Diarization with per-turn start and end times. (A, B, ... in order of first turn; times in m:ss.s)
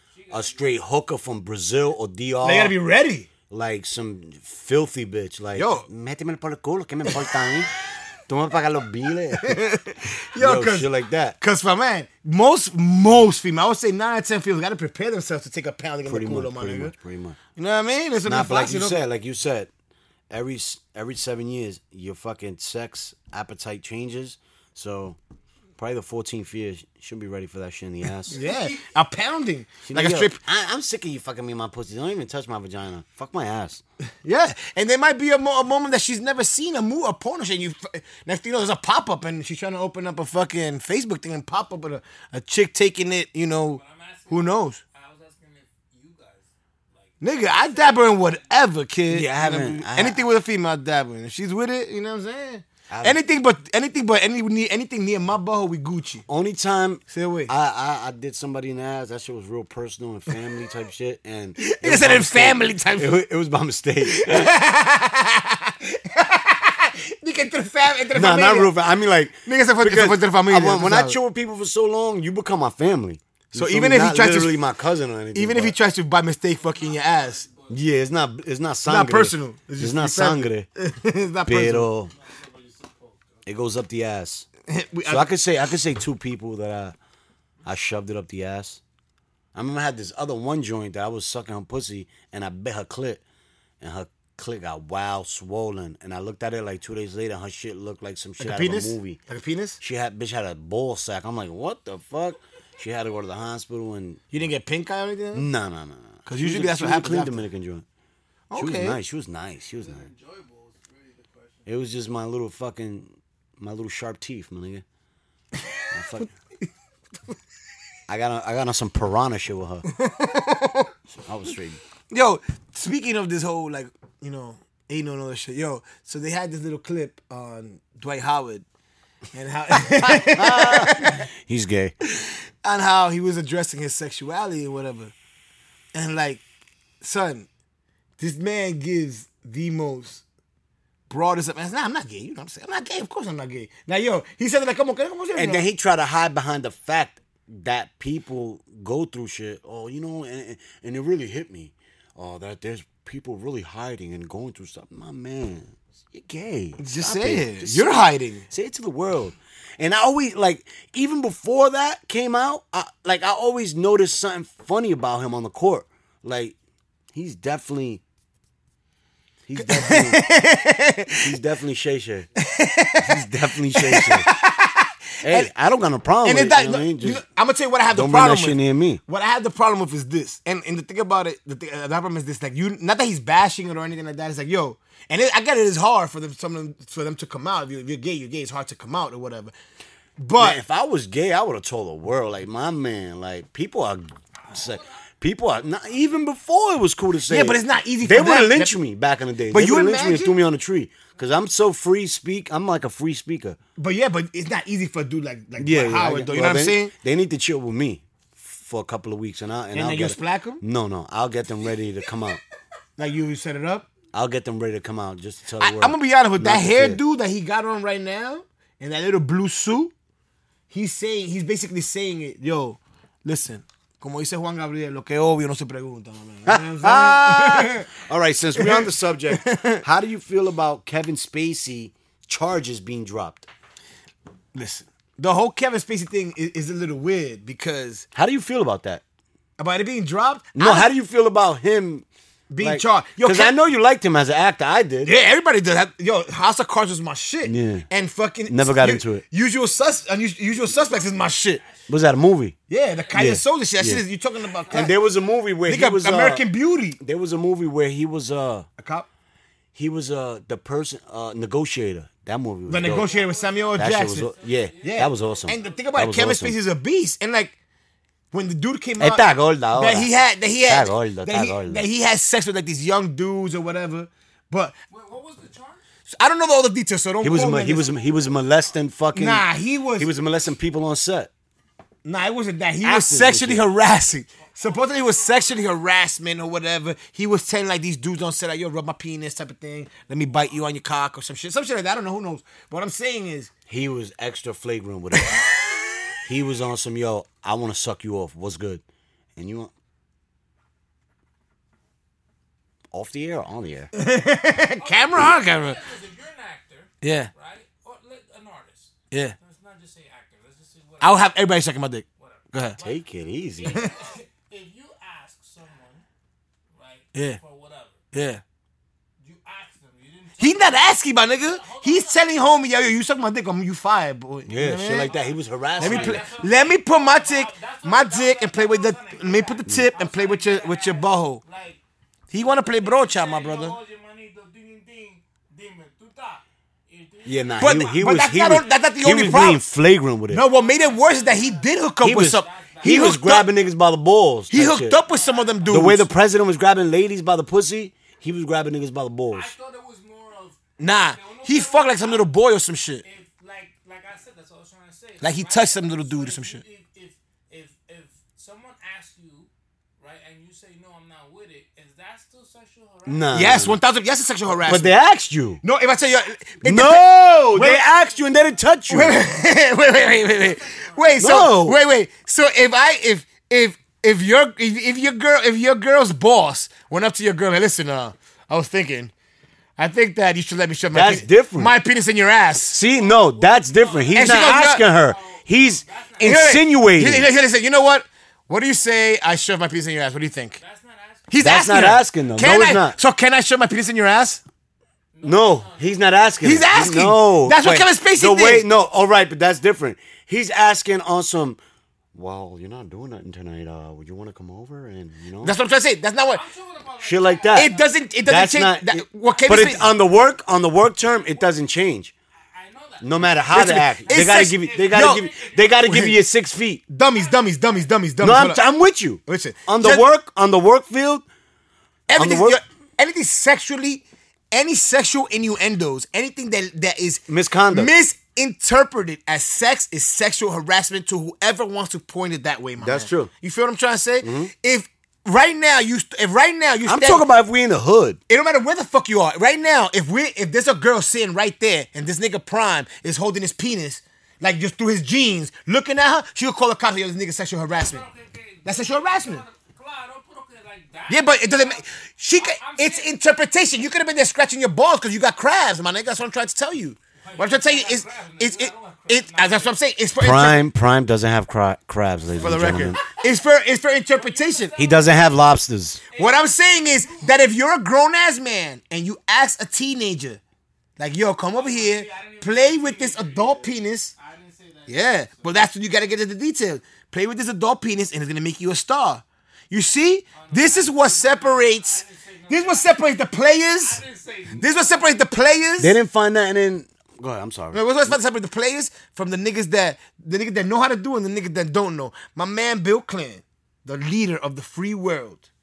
0:00.1-0:00.8 A
0:00.3-0:02.8 B
0:02.4-0:03.3 C
0:03.5-0:07.7 B
0:05.6-0:05.9 C
0:08.3-0:09.6 B
0:09.4-0:16.9 C
0:10.4-0:11.4 B
0:16.1-0:17.4 B
0:17.6-0:19.0 C
0:18.3-0:19.7 B
0:20.3-0:25.2 B
0:25.8-0:28.4 B
0:28.3-0:30.4 C
0:28.3-0:28.8 A
0:29.9-0:33.8 B
0:34.2-0:44.8 C
0:43.7-0:48.6 A
0:47.2-0:56.2 C
0:49.1-0:50.2 B
0:52.9-0:53.2 B
0:56.3-1:04.5 B
0:57.1-0:57.5 C
1:01.6-1:03.2 C
1:04.0-1:08.8 C
1:08.1-1:15.8 B
1:09.4-1:11.2 C
1:13.5-1:14.6 C
1:15.3-1:17.5 C
1:16.6-1:17.8 A
1:17.7-1:20.7 B
1:18.8-1:21.9 C
1:21.4-1:22.1 B
1:22.1-1:23.4 A
1:23.4-1:24.5 B
1:24.7-1:25.3 C
1:25.1-1:27.0 B
1:27.6-1:28.8 B
1:29.6-1:33.2 B
1:33.8-1:39.2 B
1:38.4-1:39.8 C
1:39.8-1:44.2 B
1:44.3-1:45.5 C
1:45.3-1:47.8 B
1:46.3-1:47.4 C
1:48.5-1:49.0 C
1:48.6-1:50.1 B
1:49.8-1:51.7 A
1:51.7-1:54.8 B
1:55.9-1:56.3 B
1:58.1-1:59.9 B
1:59.9-2:00.9 C
2:01.2-2:01.8 B
2:02.1-2:08.6 C
2:09.3-2:11.3 C
2:10.0-2:12.0 B
2:12.1-2:15.1 C
2:15.9-2:16.4 C
2:17.0-2:17.5 C
2:18.2-2:20.2 C
2:21.1-2:25.7 C
2:25.4-2:46.6 B
2:36.8-2:38.5 C
2:47.1-2:48.0 B
2:49.5-2:50.2 B
2:49.6-2:51.4 C
2:51.2-2:52.3 B
2:52.4-2:55.5 C
2:53.0-2:54.3 B
2:55.2-2:57.2 B
2:56.2-3:09.5 C
2:57.9-2:59.0 B
3:10.2-3:10.6 C
3:10.4-3:23.6 B
3:14.5-3:14.9 A
3:15.6-3:16.1 A
3:17.3-3:18.8 C
3:19.5-3:20.4 C
3:23.8-3:26.9 C
3:25.6-3:32.4 B
3:29.7-3:30.6 C
3:33.0-3:33.9 C
3:34.1-3:37.0 B
3:35.6-3:39.9 C
3:40.7-3:47.9 C
3:46.5-3:53.5 B
3:48.6-3:49.8 C
3:54.5-3:58.1 C
3:58.2-3:59.0 B
3:59.6-4:00.9 C
4:00.6-4:02.1 B
4:02.5-4:03.6 C
4:02.6-4:05.1 B
4:05.0-4:11.6 C
4:07.4-4:07.9 B
4:08.5-4:09.2 B
4:09.5-4:12.0 A
4:11.9-4:12.6 B
4:12.7-4:15.0 C
4:12.8-4:13.3 A
4:13.1-4:14.0 B
4:14.4-4:15.1 A
4:14.7-4:16.4 B
4:15.6-4:17.0 C
4:17.0-4:18.7 B
4:18.8-4:19.1 C
4:19.8-4:23.1 B
4:22.7-4:27.6 C
4:22.7-4:25.9 A
4:23.8-4:26.6 B
4:28.3-4:34.8 C
4:29.0-4:30.1 B
4:30.7-4:31.8 B
4:34.9-4:35.8 A
4:36.1-4:37.9 C
4:37.2-4:41.3 B
4:37.4-4:38.8 A
4:39.1-4:40.1 C
4:42.0-4:53.5 C
4:42.8-4:43.6 B
4:44.4-4:45.9 A
4:53.7-4:55.5 B
4:55.2-4:56.1 C
4:56.2-4:58.8 B
4:59.4-4:59.7 B
5:02.9-5:03.9 B
5:03.9-5:05.8 C
5:04.8-5:11.3 A
5:07.0-5:07.3 C
5:09.1-5:09.4 C
5:11.0-5:12.8 C
5:12.2-5:16.0 A
5:12.8-5:13.8 B
5:16.7-5:18.0 A
5:17.1-5:17.4 C
5:18.1-5:18.4 C
5:19.2-5:22.7 A
5:20.4-5:25.1 C
5:24.5-5:26.2 B
5:25.0-5:39.4 A
5:25.8-5:31.4 C
5:32.3-5:33.8 C
5:37.2-5:40.4 B
5:37.6-5:39.6 C
5:40.3-5:43.5 C
5:40.4-5:43.2 A
5:42.0-5:45.0 B
5:44.5-5:46.1 C
5:45.0-5:45.9 A
5:45.7-5:49.5 B
5:49.3-5:52.3 A
5:50.8-5:53.0 C
5:53.0-6:03.3 A
5:55.2-5:56.6 C
6:03.1-6:03.8 B
6:03.3-6:04.9 C
6:04.7-6:05.6 B
6:05.6-6:07.8 C
6:06.6-6:09.2 B
6:07.7-6:08.6 A
6:08.9-6:19.1 C
6:10.3-6:11.4 A
6:11.2-6:11.8 B
6:19.8-6:22.8 C
6:20.9-6:21.7 B
6:22.7-6:27.3 B
6:22.8-6:26.6 A
6:24.2-6:24.8 C
6:26.2-6:30.6 C
6:30.6-6:31.3 A
6:31.3-6:34.4 C
6:31.4-6:33.0 B
6:35.1-6:36.2 A
6:35.2-6:41.6 B
6:36.4-6:38.7 C
6:42.1-6:45.5 B
6:45.4-6:46.4 C
6:46.3-6:48.1 A
6:47.0-6:47.7 B
6:47.6-6:49.9 C
6:48.3-6:52.1 B
6:49.3-6:50.0 A
6:52.5-6:56.0 A
6:53.0-6:56.8 B
6:53.5-6:55.3 C
6:55.8-6:56.2 C
6:56.9-6:58.6 C
6:57.1-6:57.9 A
6:58.2-7:01.2 B
6:59.3-7:00.1 C
7:02.1-7:17.3 C
7:02.2-7:02.6 B
7:07.3-7:07.9 B
7:12.8-7:13.3 B
7:14.2-7:14.5 B
7:16.8-7:18.2 B
7:18.3-7:28.0 C
7:27.7-7:33.1 A
7:28.6-7:29.4 C
7:31.1-7:40.6 C
7:37.2-7:39.8 A
7:40.2-7:43.0 B
7:42.4-7:44.7 C
7:43.0-7:43.4 A
7:44.1-7:45.5 A
7:44.8-7:46.0 B
7:46.1-7:47.4 A
7:46.2-7:50.4 C
7:51.0-7:54.1 C
7:51.5-7:55.7 A
7:54.9-8:04.0 C
8:00.3-8:03.1 A
8:03.8-8:05.4 A
8:04.6-8:06.0 C
8:05.8-8:08.2 B
8:07.7-8:15.5 C